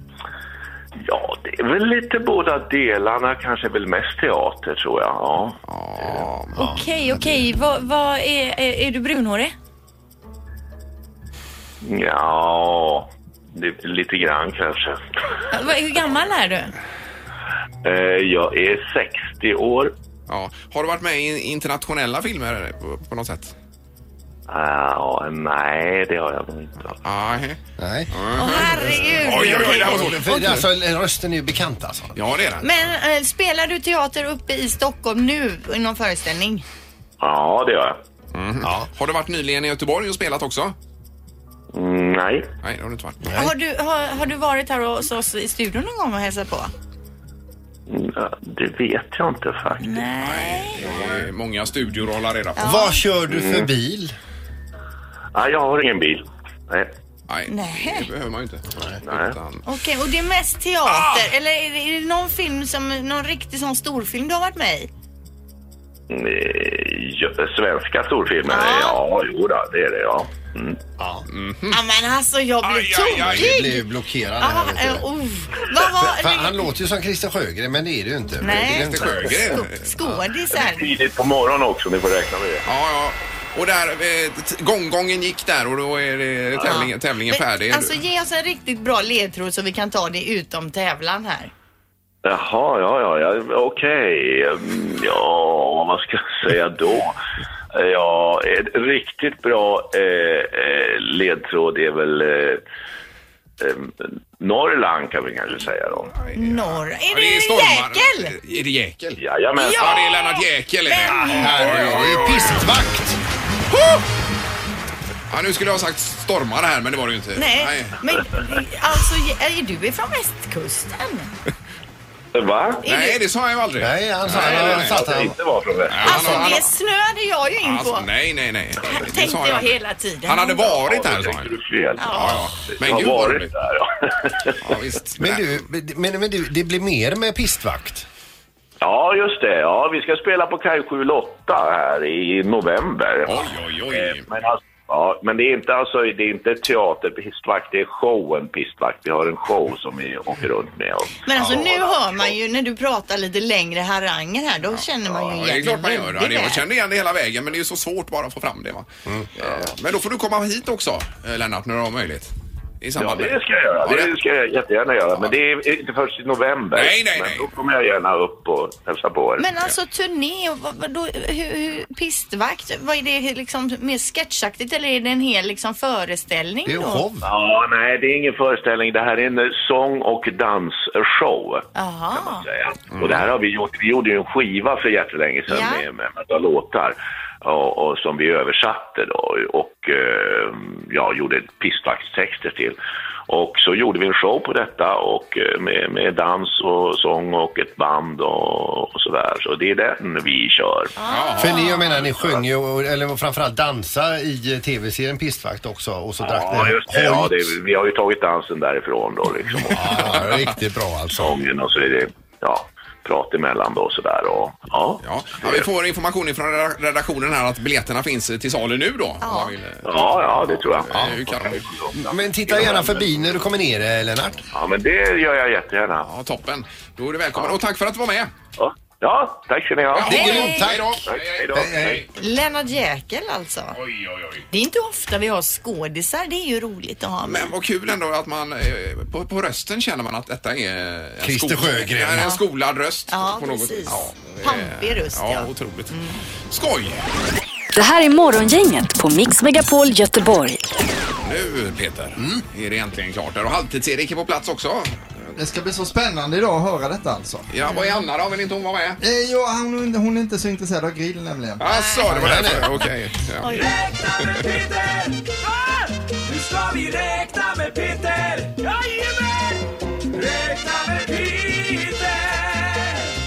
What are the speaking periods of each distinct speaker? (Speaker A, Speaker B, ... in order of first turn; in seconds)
Speaker A: 1.0-6.3, 11.8-15.1, 17.8-19.9, 24.5-27.0, 37.2-38.0, 41.7-42.5, 47.9-50.1, 50.9-51.2, 53.3-53.7, 55.3-56.9, 59.0-59.4, 66.1-70.8, 80.5-82.6, 92.2-97.2, 97.7-102.6, 103.6-106.2, 109.2-110.2, 122.3-122.8, 124.3-126.5, 130.8-134.8, 138.8-152.3, 159.4-159.7, 163.0-169.5, 177.2-200.9, 206.2-210.3, 211.1-215.7, 219.8-223.3, 224.5-226.1, 228.6-230.4, 231.1-232.1
Speaker B: 5.7-6.7, 20.3-23.6, 27.0-27.6, 28.1-30.6, 32.2-32.7, 38.3-40.8, 42.6-43.4, 50.2-52.6, 57.3-59.6, 71.3-71.8, 72.6-73.7, 78.5-80.2, 82.7-88.0, 106.2-109.2, 109.8-112.7, 115.3-118.0, 122.8-125.0, 125.9-126.7, 127.6-131.5, 132.1-133.5, 134.6-135.6, 143.2-144.3, 154.7-164.1, 166.7-167.5, 182.9-183.2, 201.1-202.1, 209.8-210.6, 215.0-221.6, 226.0-228.3, 229.9-232.1, 233.8-234.4, 237.2-245.9, 246.5-247.0, 251.2-255.3, 257.5-259.0, 261.6-263.5
Speaker C: 6.5-6.8, 27.8-32.2, 38.6-38.9, 43.2-43.5, 52.6-54.1, 71.0-71.3, 73.2-75.1, 75.8-79.4, 111.2-113.2, 123.8-125.4, 126.1-126.4, 135.2-138.1, 176.7-177.3, 201.4-207.5, 209.7-211.4, 221.9-224.4, 230.0-232.0, 241.2-242.3, 252.2-252.4, 262.1-262.7
Speaker D: 6.5-9.5, 15.5-16.7, 28.4-30.4, 32.6-36.6, 43.3-46.7, 49.8-50.9, 52.6-53.0, 57.5-58.1, 59.7-64.9, 68.5-69.0, 71.7-73.9, 74.4-76.6, 78.4-81.0, 86.6-91.5, 106.3-108.4, 109.6-112.1, 117.4-121.3, 122.8-123.2, 126.0-128.1, 128.8-130.8, 132.0-132.5, 151.2-156.6, 169.4-177.1, 181.8-182.5, 185.5-185.9, 201.0-202.0, 219.2-219.5, 230.1-230.7, 232.2-233.8, 234.5-237.5, 243.1-246.2, 257.7-258.0, 261.6-262.8, 263.4-263.7
Speaker E: 247.7-250.6
Speaker F: 255.4-257.5, 259.0-261.6
Speaker G: 263.4-273.0